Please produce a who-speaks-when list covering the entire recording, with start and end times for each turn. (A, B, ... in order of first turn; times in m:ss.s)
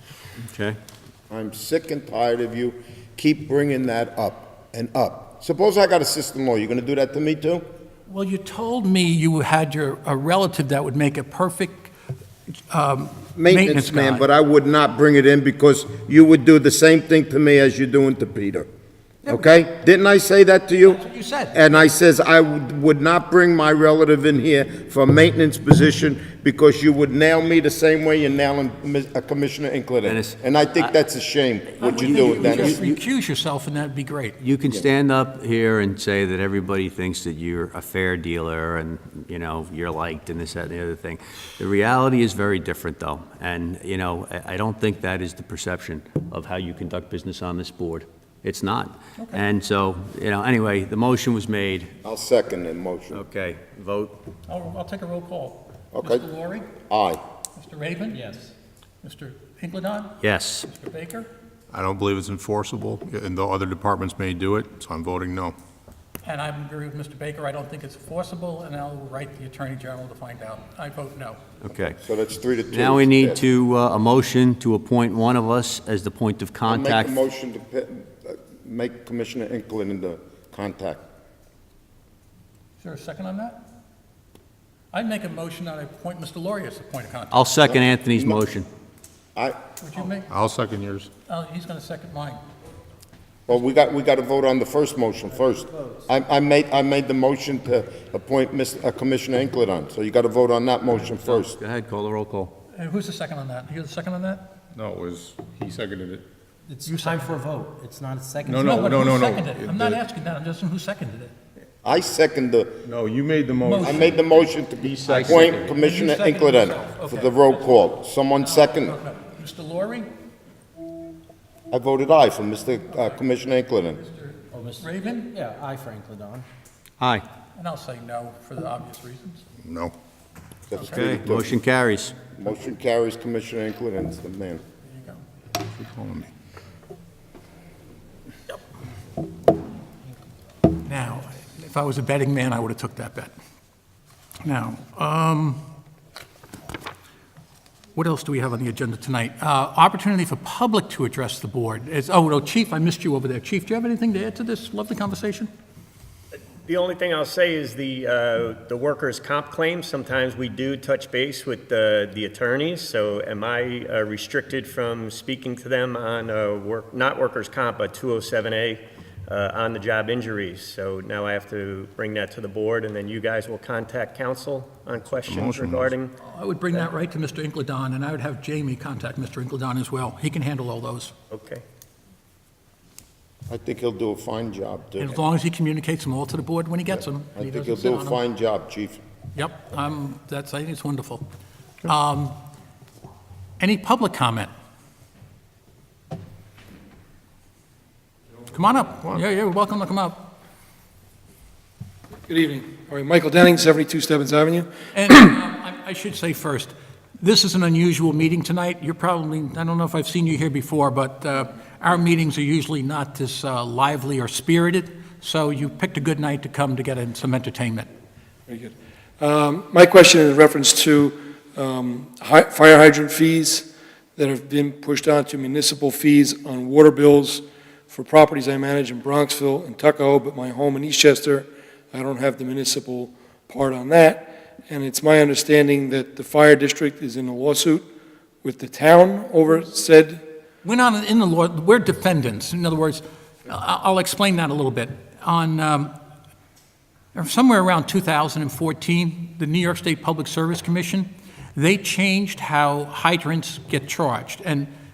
0:00.4-0:00.8 A
0:01.3-0:07.6 B
0:08.1-0:11.9 C
0:12.7-0:14.3 C
0:13.4-0:18.7 B
0:19.2-0:19.5 C
0:19.3-0:32.8 B
0:20.8-0:21.6 C
0:30.0-0:31.0 A
0:31.8-0:34.4 C
0:31.9-0:33.0 A
0:34.4-0:51.9 A
0:52.0-0:53.2 B
0:53.1-0:54.2 A
0:54.5-0:56.7 C
0:55.9-0:56.2 B
0:56.9-0:57.2 B
0:57.6-0:58.4 C
0:58.1-0:58.5 D
0:59.0-1:01.3 C
1:00.2-1:00.7 A
1:01.7-1:05.6 E
1:06.2-1:11.4 C
1:11.6-1:12.0 A
1:11.9-1:13.4 B
1:12.7-1:17.2 A
1:16.7-1:21.0 B
1:22.8-1:23.6 C
1:24.9-1:27.4 C
1:27.3-1:28.7 A
1:27.6-1:28.4 B
1:29.8-1:30.3 C
1:30.3-1:31.1 E
1:31.3-1:32.4 C
1:33.5-1:41.6 B
1:41.3-1:42.5 A
1:42.7-1:44.5 C
1:44.8-1:46.2 E
1:46.7-1:49.0 D
1:46.9-1:47.4 C
1:48.4-1:50.0 E
1:48.6-1:51.3 C
1:51.8-1:52.8 B
1:52.8-1:55.4 E
1:53.6-1:54.0 C
1:53.8-1:59.0 B
1:55.1-1:55.7 A
1:55.6-1:57.4 C
1:58.4-2:00.1 C
2:01.7-2:04.0 B
2:04.0-2:05.4 C
2:04.5-2:06.5 D
2:07.6-2:09.4 C
2:09.6-2:09.9 E
2:10.7-2:11.6 B
2:10.8-2:11.0 C
2:10.9-2:12.1 A
2:12.2-2:14.6 B
2:15.7-2:16.3 E
2:20.8-2:23.3 C
2:24.4-2:25.6 C
2:28.0-2:35.5 C
2:36.6-2:56.1 F
2:55.2-2:55.9 E
2:56.2-3:01.1 C
3:01.3-3:01.6 F
3:03.5-3:05.2 B
3:05.0-3:08.2 C
3:07.4-3:09.0 B
3:09.4-3:11.3 C
3:11.8-3:12.4 C
3:13.6-3:14.5 C
3:18.5-3:20.3 C
3:22.3-3:24.7 G
3:24.9-3:37.9 C
3:38.5-3:57.9 G
3:58.4-4:00.2 G
4:00.6-4:06.0 C
4:07.1-4:14.7 C